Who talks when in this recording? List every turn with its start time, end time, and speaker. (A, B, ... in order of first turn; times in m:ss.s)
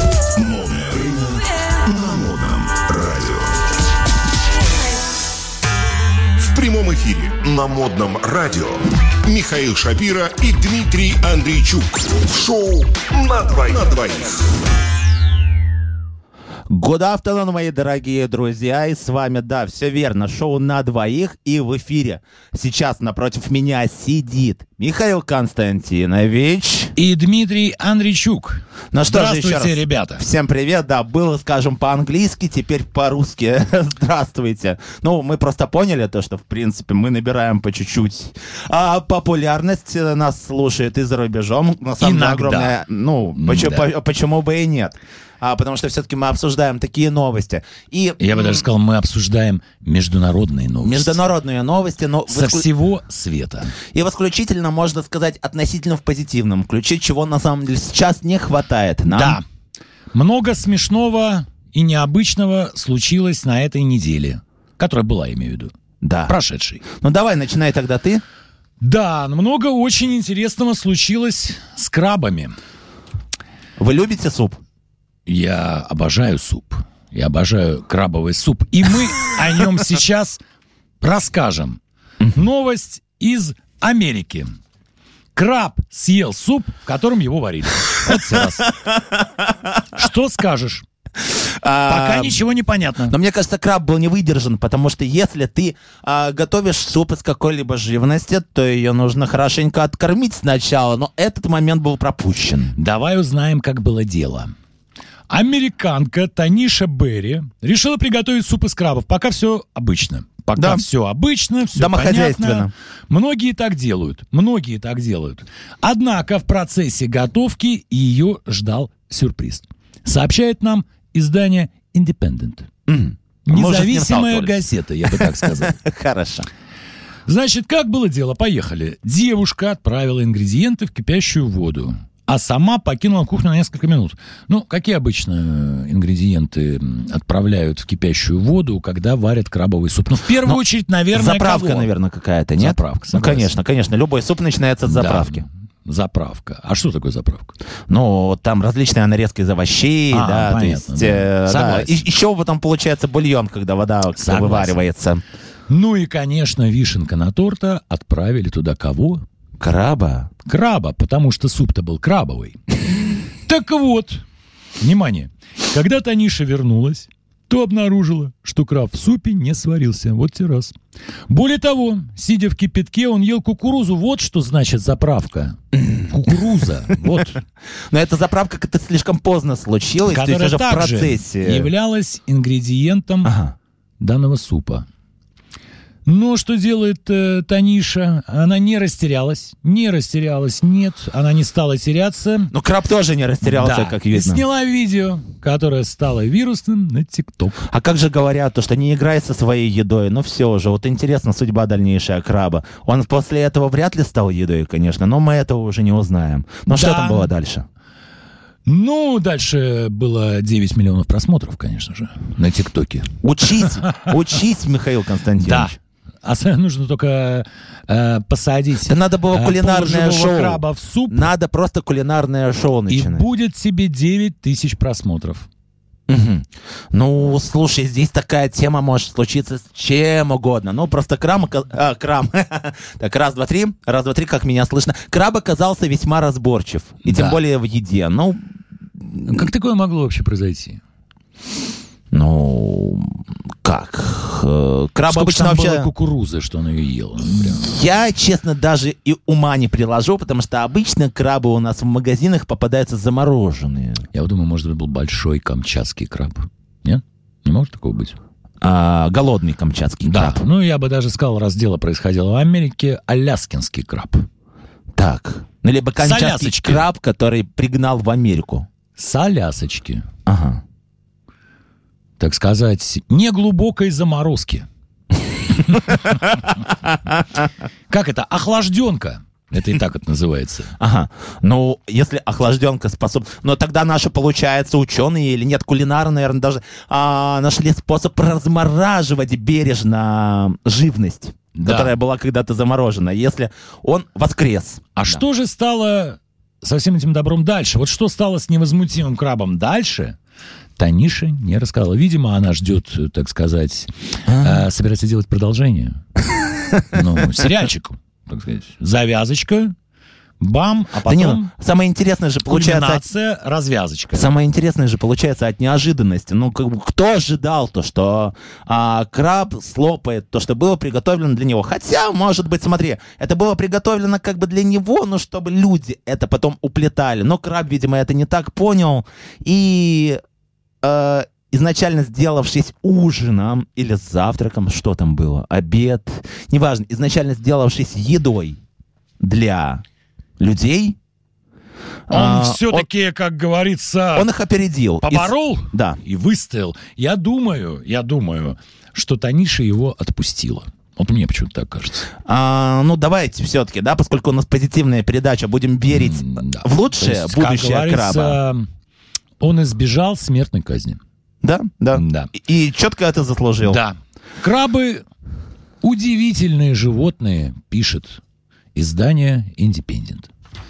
0:00.4-0:03.5 A
0:06.4-0:14.5 A
0:16.7-0:26.9 B
0:27.0-0:30.3 C
0:28.9-0:48.6 B
0:42.0-0:42.8 C
0:43.4-0:43.9 C
0:48.2-0:51.2 C
0:50.8-0:52.7 B
0:52.3-0:53.8 C
0:53.9-0:59.4 B
0:59.1-0:59.4 C
1:00.1-1:05.7 C
1:06.0-1:06.4 B
1:06.3-1:06.8 C
1:07.0-1:08.2 B
1:08.8-1:12.5 C
1:13.8-1:14.6 B
1:15.2-1:20.4 C
1:21.0-1:24.5 C
1:25.3-1:28.7 C
1:28.1-1:29.2 B
1:29.9-1:30.8 C
1:31.3-1:32.4 B
1:31.9-1:33.2 C
1:33.1-1:42.8 B
1:42.8-1:44.5 C
1:45.3-2:02.7 C
1:50.6-1:50.8 B
1:51.7-1:52.7 B
2:02.9-2:06.5 B
2:03.4-2:05.8 C
2:07.3-2:21.9 C
2:20.4-2:25.4 B
2:22.6-2:23.5 C
2:24.8-2:27.5 C
2:27.9-2:35.2 B
2:30.1-2:32.0 C
2:34.2-2:34.8 C
2:35.7-2:39.2 C
2:39.6-2:40.3 B
2:40.4-2:42.6 C
2:43.4-2:44.2 C
2:44.8-2:50.7 C
2:51.3-2:57.4 C
2:55.9-2:56.4 B
2:57.9-3:01.7 B
3:00.0-3:03.3 C
3:03.2-3:03.5 B
3:04.0-3:04.8 C
3:06.0-3:12.5 C
3:12.5-3:14.4 B
3:13.4-3:17.6 C
3:17.6-3:27.6 B
3:26.7-3:27.3 C
3:28.6-3:33.1 C
3:33.2-3:35.8 B
3:35.4-3:41.3 C
3:38.8-3:43.3 B
3:42.9-3:45.5 C
3:46.1-3:58.4 B
3:57.0-3:57.4 C
3:59.1-3:59.4 B
3:59.2-4:00.8 C
4:02.1-4:05.9 B
4:05.1-4:07.7 C
4:07.4-4:14.0 B
4:14.1-4:18.2 C
4:18.6-4:20.4 B
4:20.0-4:24.2 C
4:25.0-4:28.6 B
4:26.0-4:26.9 C
4:29.0-4:30.0 C
4:30.2-4:30.6 B
4:32.2-4:34.7 C
4:35.6-4:36.2 B
4:37.9-4:40.7 C
4:40.8-4:55.2 B
4:51.6-4:51.9 C
4:54.9-5:00.2 C
5:00.8-5:06.0 C
5:04.3-5:04.6 B
5:06.6-5:07.4 B
5:06.9-5:09.7 C
5:10.4-5:11.5 C
5:11.0-5:13.0 B
5:12.4-5:14.3 C
5:14.1-5:30.2 B
5:30.8-5:38.6 B
5:39.2-5:39.8 B
5:40.4-5:41.0 B
5:42.1-5:42.9 B
5:42.1-5:44.3 C
5:44.1-5:46.0 B
5:45.0-5:52.1 C
5:52.2-5:58.4 B
5:55.9-5:58.7 C
5:59.4-6:01.0 C
6:01.4-6:03.8 B
6:01.9-6:02.3 C
6:03.6-6:05.0 C
6:05.8-6:08.2 C
6:08.7-6:10.3 C